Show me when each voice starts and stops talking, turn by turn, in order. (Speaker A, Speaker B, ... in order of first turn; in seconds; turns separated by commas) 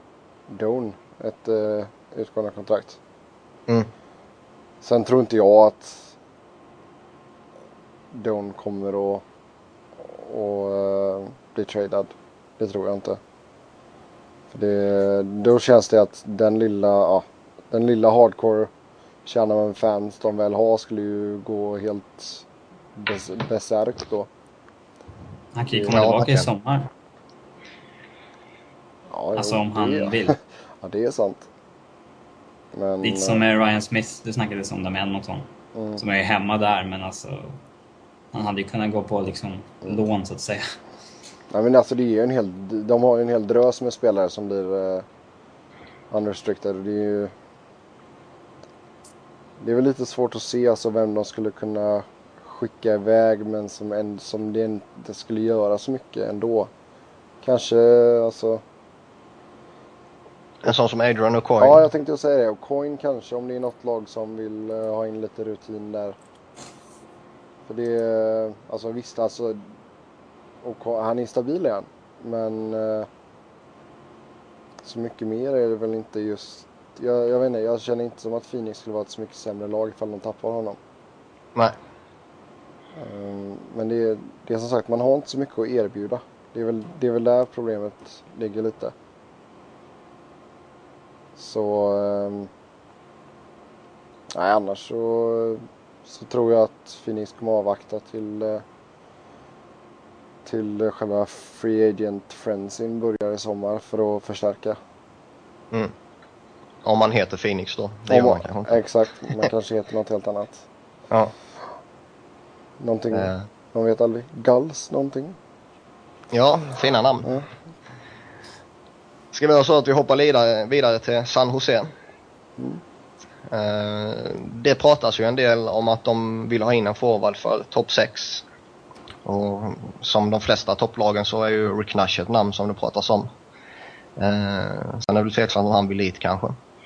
Speaker A: 0.5-3.0, Speaker A: 4.8-6.2, Speaker A: 8.1-9.2, Speaker A: 10.0-13.2, Speaker A: 14.5-18.7, Speaker A: 19.3-22.4, Speaker A: 23.0-24.3, Speaker B: 25.5-26.9, Speaker A: 25.7-26.0, Speaker C: 25.9-26.5, Speaker A: 29.1-31.5, Speaker B: 29.4-30.4, Speaker A: 32.7-33.4, Speaker B: 33.0-37.6, Speaker A: 35.8-36.0, Speaker B: 38.3-40.8, Speaker A: 41.5-45.1, Speaker A: 46.1-47.3, Speaker A: 49.6-56.7, Speaker A: 57.4-58.6, Speaker C: 60.6-61.9, Speaker A: 61.6-66.2, Speaker A: 67.7-69.7, Speaker A: 70.6-73.1, Speaker A: 74.8-80.8, Speaker A: 83.0-88.9, Speaker A: 91.4-92.5, Speaker A: 94.3-98.6, Speaker A: 100.5-104.8, Speaker C: 106.8-108.8, Speaker A: 108.1-110.7, Speaker A: 112.8-115.4, Speaker C: 113.2-113.4, Speaker C: 116.3-117.3, Speaker C: 119.3-121.9, Speaker C: 123.5-128.4, Speaker C: 129.2-133.3, Speaker C: 134.2-136.6